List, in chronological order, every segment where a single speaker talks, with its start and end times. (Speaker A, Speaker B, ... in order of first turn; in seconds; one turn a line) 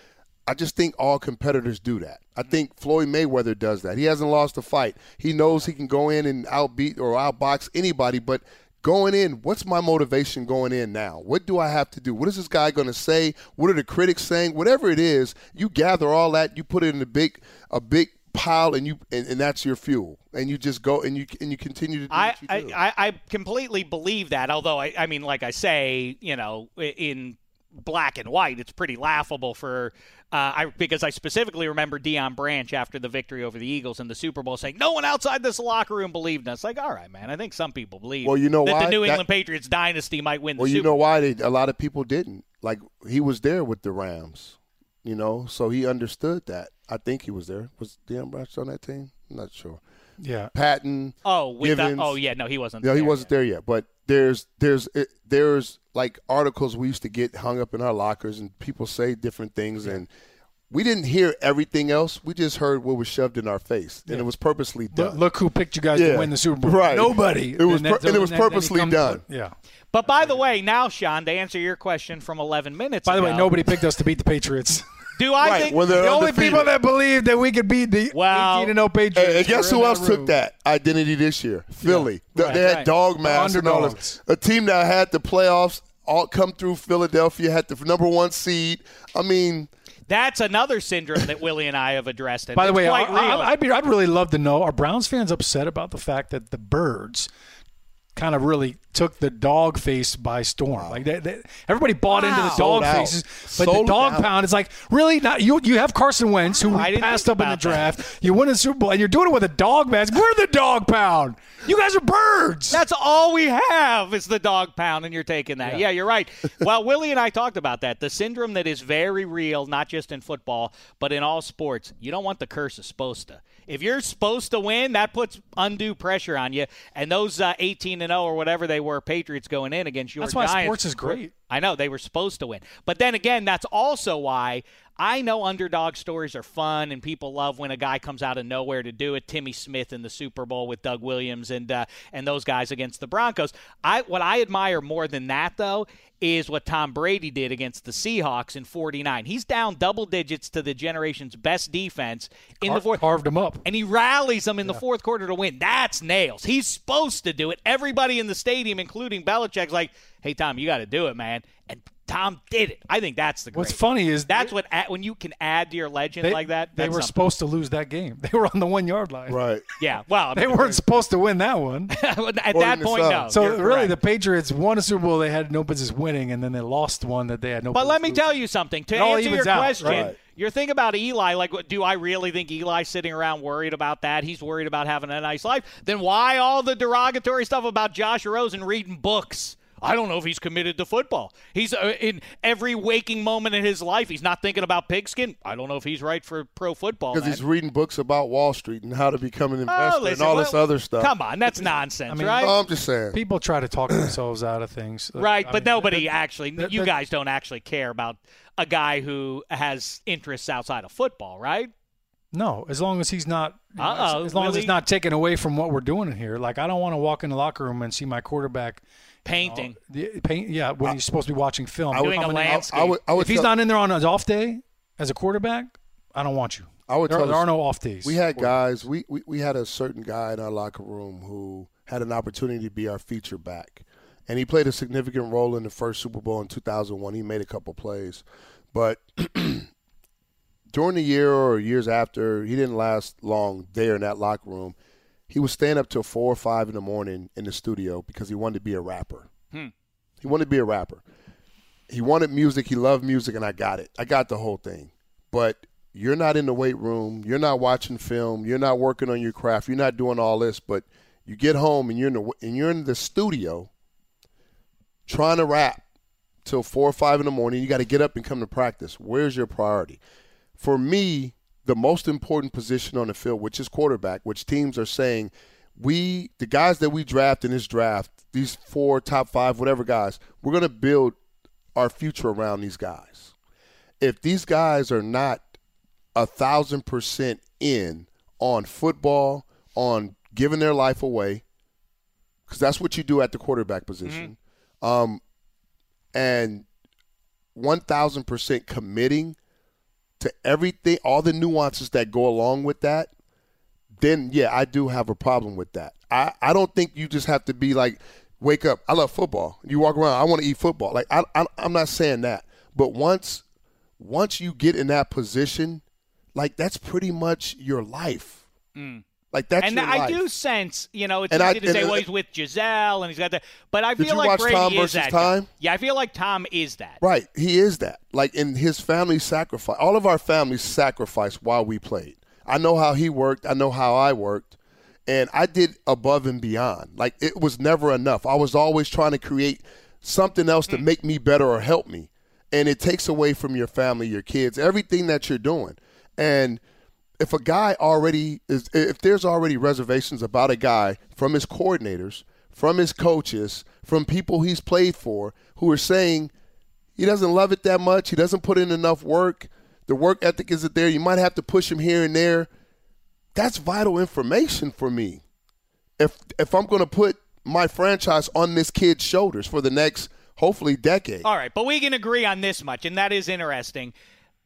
Speaker A: 0.5-22.8
Speaker B: 22.1-40.9
Speaker A: 38.2-39.2
Speaker A: 40.6-49.8
Speaker C: 50.2-50.5
Speaker A: 50.5-52.2
Speaker B: 51.2-53.3
Speaker A: 52.8-60.1
Speaker A: 60.7-65.2
Speaker C: 64.9-69.5
Speaker A: 65.9-69.2
Speaker B: 69.9-73.5
Speaker C: 73.0-74.8
Speaker B: 75.2-75.8
Speaker A: 75.4-76.7
Speaker C: 75.8-80.4
Speaker B: 78.1-78.7
Speaker A: 79.1-89.7
Speaker C: 81.8-84.2
Speaker B: 82.4-82.9
Speaker B: 90.1-93.5
Speaker C: 92.5-97.3
Speaker C: 98.1-112.8
Speaker A: 100.8-101.0
Speaker B: 102.1-102.6
Speaker A: 102.3-104.3
Speaker B: 106.7-107.8
Speaker B: 112.7-153.0
Speaker C: 130.2-131.3
Speaker C: 152.6-153.6
Speaker B: 153.6-167.1
Speaker C: 163.5-164.5
Speaker C: 166.2-169.4
Speaker A: 169.3-169.6
Speaker B: 169.8-170.8
Speaker C: 170.3-171.9
Speaker B: 171.9-173.9
Speaker A: 172.5-173.4
Speaker C: 173.3-178.2
Speaker B: 177.7-197.4
Speaker C: 178.9-180.1
Speaker A: 179.8-180.2
Speaker A: 197.1-201.1
Speaker B: 199.7-202.5
Speaker C: 202.1-202.6
Speaker A: 202.4-203.2
Speaker C: 203.1-206.9
Speaker B: 205.2-211.7
Speaker C: 212.3-218.8
Speaker B: 213.8-214.7
Speaker B: 219.2-219.8
Speaker C: 219.4-228.8
Speaker A: 221.9-223.5
Speaker B: 221.9-222.9
Speaker A: 226.9-239.7
Speaker A: 240.7-244.8
Speaker A: 245.3-249.3
Speaker A: 250.2-251.0
Speaker A: 251.9-263.7
Speaker A: 265.1-265.8
Speaker A: 266.4-270.0
Speaker A: 270.6-281.1
Speaker A: 281.7-283.3
Speaker A: 284.0-285.5
Speaker A: 286.1-291.4
Speaker A: 292.5-295.2
Speaker B: 294.0-294.3
Speaker A: 296.1-296.6
Speaker A: 297.5-299.4
Speaker A: 300.2-303.1
Speaker A: 304.0-313.4
Speaker A: 314.0-315.8
Speaker A: 316.3-318.4
Speaker B: 318.7-319.0
Speaker A: 319.3-320.2
Speaker B: 319.6-327.0
Speaker A: 321.3-322.0
Speaker A: 324.0-325.5
Speaker A: 327.0-334.6
Speaker A: 335.1-346.6
Speaker A: 347.2-356.3
Speaker A: 356.9-362.5
Speaker A: 363.3-365.2
Speaker A: 366.0-371.3
Speaker B: 371.2-373.9